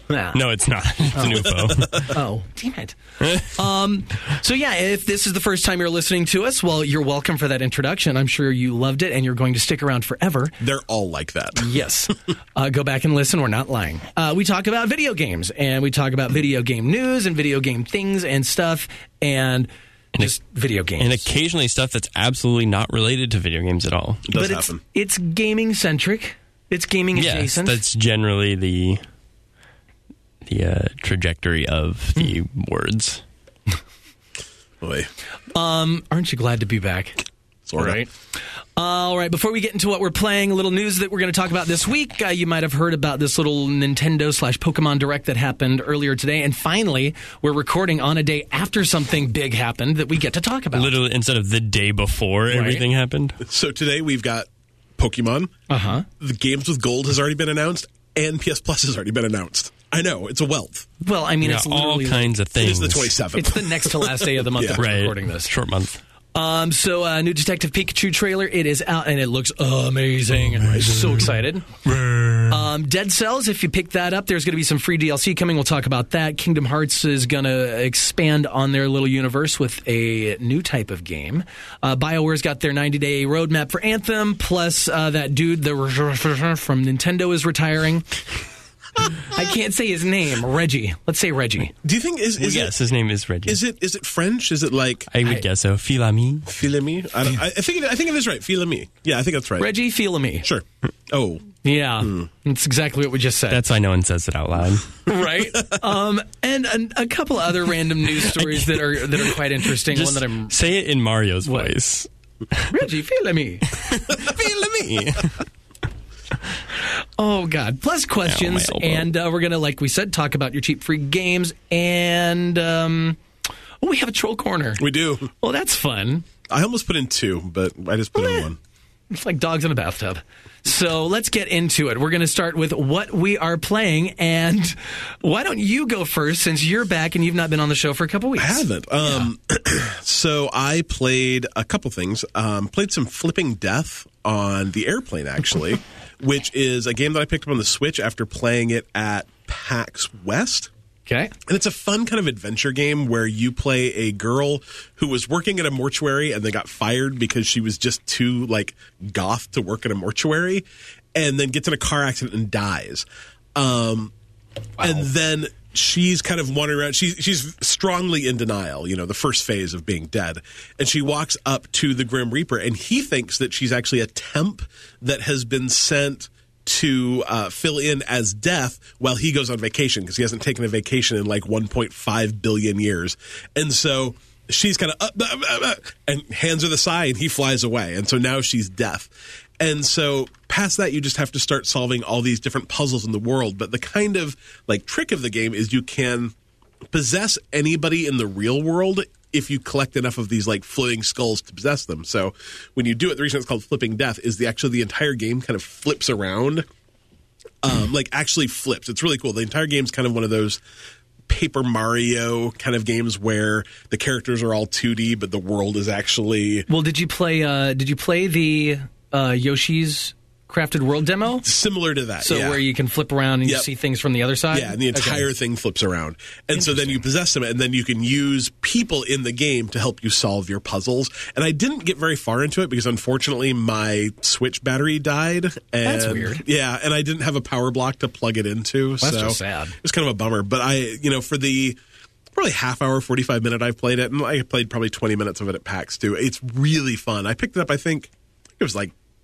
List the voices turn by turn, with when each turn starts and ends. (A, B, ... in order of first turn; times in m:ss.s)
0:00.1-0:00.4 A
0:00.3-0:02.1 B
0:01.2-0:10.6 A
0:01.3-0:02.1 C
0:10.6-0:11.7 C
0:11.6-0:21.3 A
0:21.0-0:24.3 B
0:24.3-0:24.8 C
0:24.3-0:27.8 A
0:27.2-0:29.0 B
0:30.5-0:33.2 B
0:34.8-0:35.1 C
0:35.5-0:37.2 A
0:37.7-0:38.0 C
0:37.8-0:38.1 A
0:38.8-0:50.9 A
0:50.7-0:53.4 B
0:52.5-0:52.8 A
0:53.4-0:55.5 C
0:55.7-0:56.1 A
0:56.2-1:00.9 C
1:01.0-1:02.3 A
1:01.4-1:03.2 B
1:02.6-1:04.8 C
1:03.4-1:05.5 A
1:04.8-1:06.0 B
1:06.4-1:11.7 A
1:10.7-1:11.1 C
1:10.7-1:11.1 B
1:11.9-1:12.5 B
1:12.5-1:28.1 A
1:29.1-1:31.7 A
1:31.8-1:32.8 C
1:32.4-1:33.6 B
1:33.5-1:35.1 C
1:35.1-1:36.5 B
1:36.5-1:39.7 C
1:39.6-1:40.5 A
1:40.4-1:42.3 C
1:41.6-1:43.6 A
1:43.5-1:44.9 B
1:45.0-1:50.7 A
1:45.5-1:45.8 C
1:48.4-1:49.0 B
1:49.9-1:52.7 B
1:51.5-1:51.8 A
1:52.7-1:53.8 A
1:53.7-1:55.4 B
1:56.8-2:03.2 A
1:58.2-1:59.1 B
2:03.8-2:06.2 A
2:04.8-2:05.3 C
2:06.5-2:08.6 C
2:08.2-2:08.5 A
2:09.1-2:19.2 A
2:18.4-2:30.7 C
2:31.1-2:31.4 A
2:31.5-2:44.1 C
2:44.8-3:16.3 C
3:16.9-3:26.6 C
3:27.6-3:30.6 C
3:31.3-3:36.7 C
3:36.7-3:41.5 A
3:41.4-3:42.6 C
3:42.2-3:45.2 A
3:44.5-4:01.8 C
3:46.6-3:47.0 A
3:55.8-3:56.4 A
3:59.0-3:59.8 A
4:02.4-4:08.9 C